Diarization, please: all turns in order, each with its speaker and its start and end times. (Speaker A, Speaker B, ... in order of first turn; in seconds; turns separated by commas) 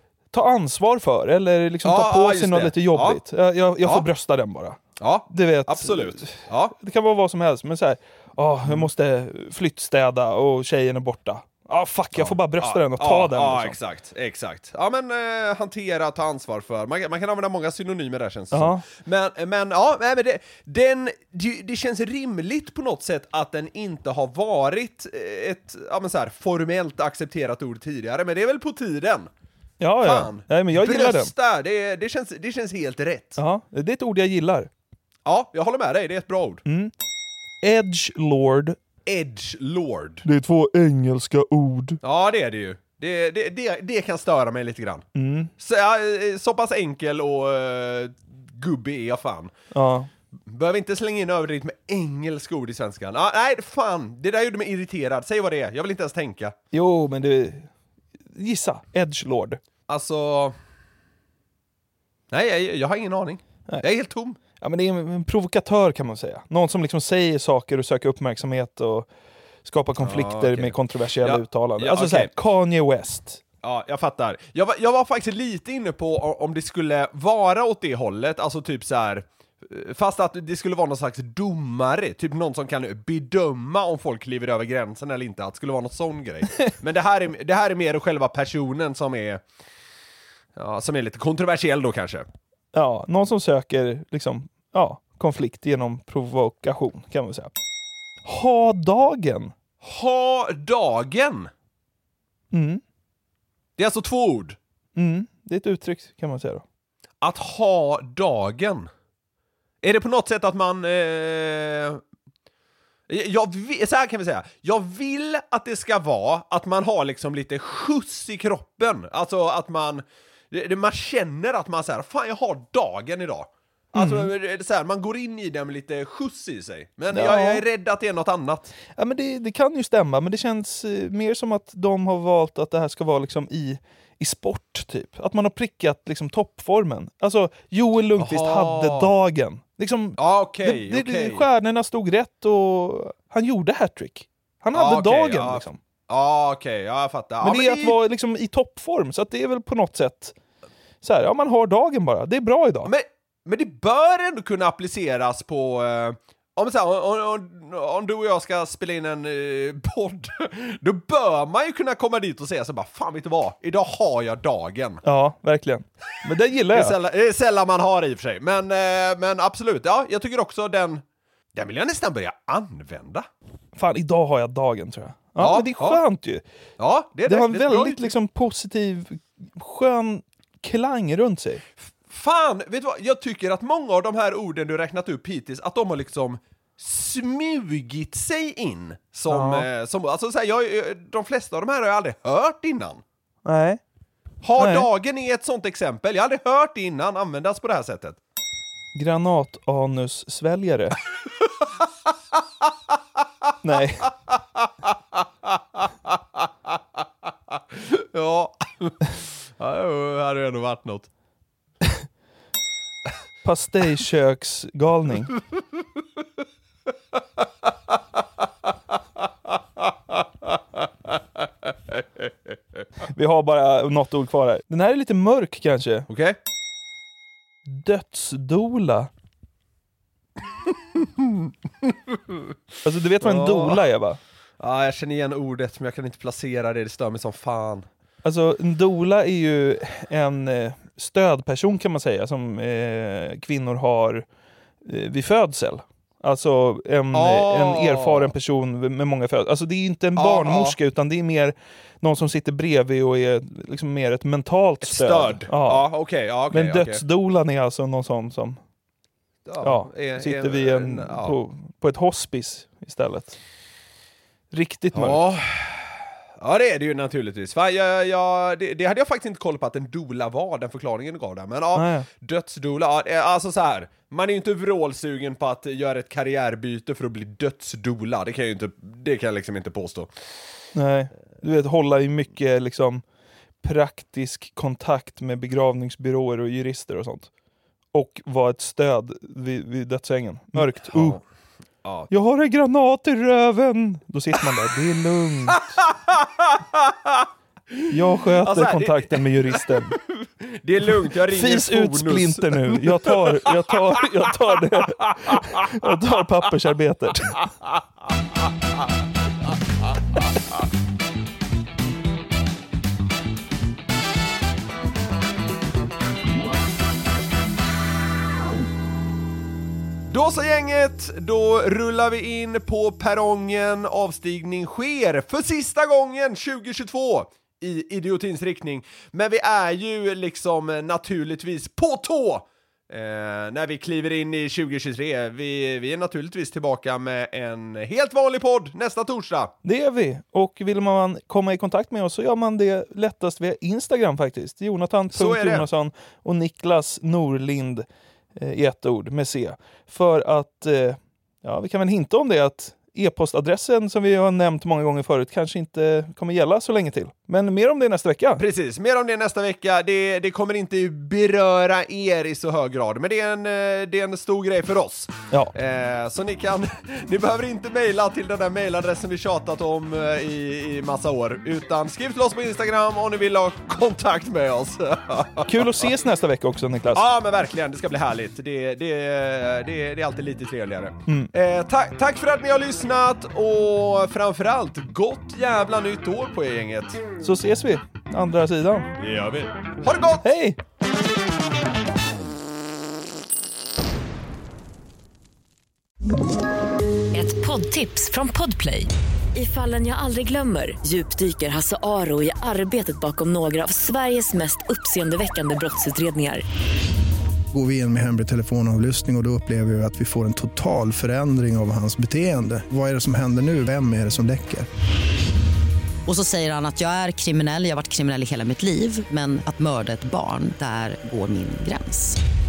Speaker A: 0.3-4.8, Speaker B: 1.8-3.2, Speaker B: 5.0-6.7, Speaker A: 5.3-13.8, Speaker B: 12.1-29.3, Speaker A: 18.5-18.9, Speaker A: 29.8-31.3, Speaker B: 30.0-33.4, Speaker A: 33.4-34.7, Speaker B: 35.2-36.6, Speaker A: 36.7-36.9, Speaker A: 37.6-38.8, Speaker B: 39.0-40.2, Speaker A: 40.2-42.0, Speaker B: 42.0-45.0, Speaker A: 45.1-45.5, Speaker B: 45.6-49.5, Speaker A: 49.7-50.1, Speaker B: 50.5-56.6, Speaker A: 56.7-57.7, Speaker A: 58.3-59.6, Speaker B: 59.9-60.6, Speaker B: 62.3-64.4, Speaker A: 64.6-69.1, Speaker A: 69.7-73.4, Speaker B: 70.0-72.3, Speaker B: 73.6-89.4, Speaker B: 90.6-92.3, Speaker A: 92.7-97.5, Speaker A: 98.2-99.5, Speaker B: 99.8-101.5, Speaker A: 102.5-102.8, Speaker B: 103.8-104.6, Speaker A: 105.0-106.6, Speaker B: 107.2-108.9, Speaker B: 109.8-112.0, Speaker B: 113.1-128.7, Speaker A: 124.0-124.3, Speaker A: 127.1-127.6, Speaker A: 129.0-145.8, Speaker B: 138.2-139.1, Speaker B: 140.2-141.5, Speaker B: 144.7-148.0, Speaker A: 147.4-150.3, Speaker A: 151.0-152.9, Speaker B: 152.8-165.0, Speaker A: 165.0-167.0, Speaker B: 166.7-171.0, Speaker B: 171.6-173.3, Speaker A: 173.8-176.4, Speaker B: 175.4-176.0, Speaker B: 176.8-178.1, Speaker A: 177.2-181.6, Speaker B: 181.8-193.0, Speaker A: 189.3-189.7, Speaker A: 193.4-193.8, Speaker B: 194.4-198.2, Speaker A: 194.6-194.9, Speaker A: 198.9-201.0, Speaker B: 201.4-203.2, Speaker A: 203.6-204.1, Speaker B: 204.3-211.1, Speaker A: 213.4-215.3, Speaker B: 215.5-216.2, Speaker B: 217.1-218.2, Speaker B: 219.2-222.8, Speaker A: 223.1-226.1, Speaker B: 226.1-226.4, Speaker A: 227.7-229.1, Speaker B: 230.5-232.6, Speaker A: 232.8-234.2, Speaker B: 233.2-233.8, Speaker B: 234.6-237.9, Speaker A: 238.2-244.2, Speaker A: 244.8-255.9, Speaker B: 247.1-248.3, Speaker B: 250.2-250.8, Speaker B: 254.8-257.0, Speaker A: 256.5-258.6, Speaker B: 259.5-261.4, Speaker A: 259.6-263.4, Speaker A: 264.5-265.2, Speaker B: 264.9-280.3, Speaker A: 271.8-272.1, Speaker A: 280.8-283.0, Speaker A: 283.6-287.3, Speaker A: 287.9-291.2, Speaker B: 290.6-291.2, Speaker B: 291.8-292.1, Speaker A: 292.1-295.8, Speaker B: 295.8-304.0, Speaker A: 297.9-300.0, Speaker A: 301.3-307.5, Speaker B: 304.7-305.9, Speaker B: 320.1-339.5, Speaker A: 339.6-358.4, Speaker B: 345.1-345.7, Speaker B: 358.4-375.9, Speaker A: 375.5-377.1, Speaker B: 376.9-387.0, Speaker A: 381.1-381.3, Speaker A: 387.2-388.9, Speaker B: 389.0-390.3, Speaker A: 390.2-390.6, Speaker C: 397.1-406.4, Speaker D: 407.5-414.7, Speaker E: 416.1-422.2